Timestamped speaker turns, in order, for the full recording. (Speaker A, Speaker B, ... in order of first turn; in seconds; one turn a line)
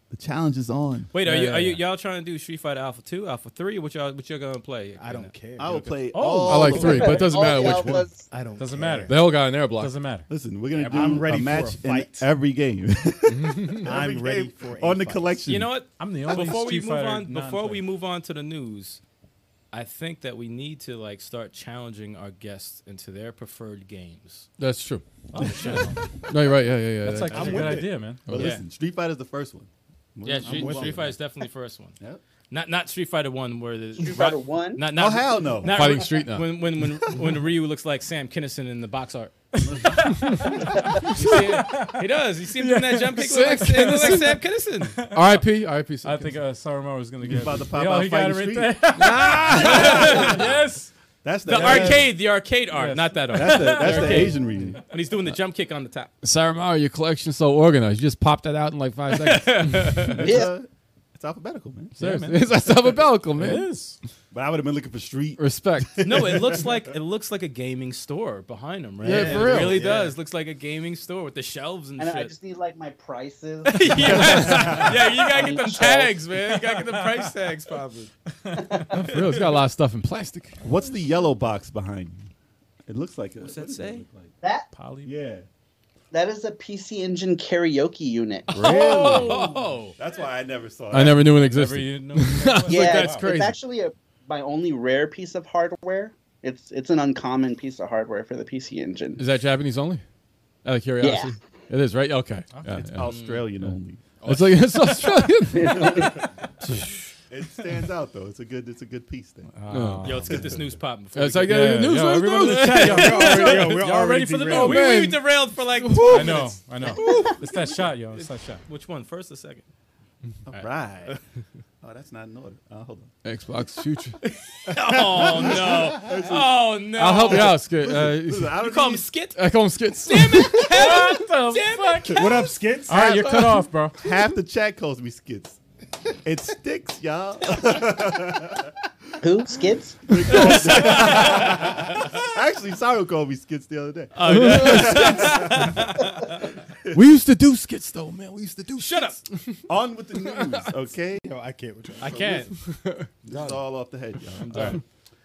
Speaker A: 0.1-1.1
Speaker B: 1.1-5.3
Speaker C: 1.2-1.8
Speaker D: 5.0-6.0
Speaker A: 5.6-7.7
Speaker C: 6.1-7.3
Speaker E: 6.5-8.2
Speaker F: 6.8-8.3
Speaker D: 8.3-9.2
Speaker C: 8.6-11.7
Speaker E: 9.1-9.9
Speaker A: 10.3-15.7
Speaker D: 10.9-12.3
Speaker E: 13.3-13.8
Speaker D: 13.8-15.4
Speaker B: 15.5-19.0
Speaker C: 16.0-17.9
Speaker B: 19.7-24.5
Speaker E: 24.6-27.9
Speaker C: 25.3-26.0
Speaker B: 25.4-25.8
Speaker C: 27.0-28.3
Speaker D: 27.3-27.9
Speaker A: 27.4-31.2
Speaker B: 28.3-28.6
Speaker B: 30.2-32.0
Speaker D: 30.5-31.0
Speaker B: 32.5-39.4
Speaker F: 34.0-34.9
Speaker A: 34.9-36.0
Speaker E: 35.7-36.6
Speaker C: 39.6-44.3
Speaker A: 39.6-40.4
Speaker B: 40.5-45.0
Speaker E: 43.2-44.4
Speaker C: 45.0-45.4
Speaker E: 45.0-46.4
Speaker C: 46.0-50.9
Speaker A: 47.2-50.5
Speaker E: 49.1-50.1
Speaker B: 49.6-50.5
Speaker A: 51.2-52.1
Speaker B: 51.5-56.1
Speaker C: 51.5-51.9
Speaker C: 52.7-54.7
Speaker A: 53.3-54.8
Speaker E: 56.2-60.1
Speaker B: 59.1-60.3
Speaker A: 60.1-62.0
Speaker F: 60.2-60.5
Speaker C: 62.0-62.5
Speaker E: 62.0-63.7
Speaker C: 63.4-64.0
Speaker A: 64.3-66.9
Speaker E: 65.4-66.3
Speaker B: 66.0-72.3
Speaker E: 69.0-70.0
Speaker D: 69.0-70.1
Speaker F: 72.0-76.2
Speaker B: 73.7-78.1
Speaker C: 74.1-75.2
Speaker C: 76.5-77.3
Speaker C: 78.4-79.0
Speaker F: 78.6-79.2
Speaker E: 79.0-80.6
Speaker A: 80.6-82.3
Speaker A: 82.9-84.3
Speaker B: 83.4-84.0
Speaker F: 84.4-84.7
Speaker C: 84.7-85.1
Speaker A: 85.0-85.5
Speaker F: 86.1-89.2
Speaker B: 88.5-90.0
Speaker E: 88.6-89.4
Speaker C: 88.6-89.7
Speaker A: 88.7-89.3
Speaker A: 90.0-91.3
Speaker E: 90.9-93.6
Speaker C: 91.5-93.3
Speaker F: 92.7-99.2
Speaker E: 99.2-100.0
Speaker E: 100.7-103.7
Speaker F: 101.0-101.3
Speaker C: 102.5-103.0
Speaker A: 102.8-104.0
Speaker B: 103.0-103.5
Speaker B: 104.2-105.0
Speaker E: 104.2-106.2
Speaker F: 105.5-106.2
Speaker A: 105.8-106.2
Speaker A: 107.3-109.5
Speaker C: 109.5-110.3
Speaker E: 109.7-110.4
Speaker B: 110.0-111.8
Speaker A: 110.3-110.7
Speaker E: 111.1-113.6
Speaker C: 111.5-114.9
Speaker D: 112.7-114.9
Speaker B: 112.8-113.8
Speaker B: 114.5-117.6
Speaker E: 114.5-116.5
Speaker C: 116.1-118.6
Speaker B: 118.2-119.7
Speaker A: 120.5-121.2
Speaker B: 120.5-121.2
Speaker A: 121.8-123.2
Speaker E: 123.2-124.2
Speaker B: 124.6-127.6
Speaker A: 125.1-129.1
Speaker E: 127.0-128.6
Speaker B: 128.6-129.4
Speaker E: 129.3-130.7
Speaker B: 130.0-132.5
Speaker C: 130.5-134.0
Speaker D: 132.1-133.6
Speaker A: 134.0-135.6
Speaker A: 136.2-138.8
Speaker F: 139.2-140.2
Speaker A: 140.1-145.9
Speaker B: 140.3-142.1
Speaker B: 144.2-146.4
Speaker E: 144.2-145.5
Speaker E: 146.9-149.6
Speaker B: 148.8-149.2
Speaker A: 149.7-151.3
Speaker E: 150.3-150.7
Speaker D: 151.2-152.2
Speaker B: 152.0-152.6
Speaker A: 152.0-152.5
Speaker E: 152.6-153.1
Speaker A: 153.2-154.8
Speaker B: 154.4-154.8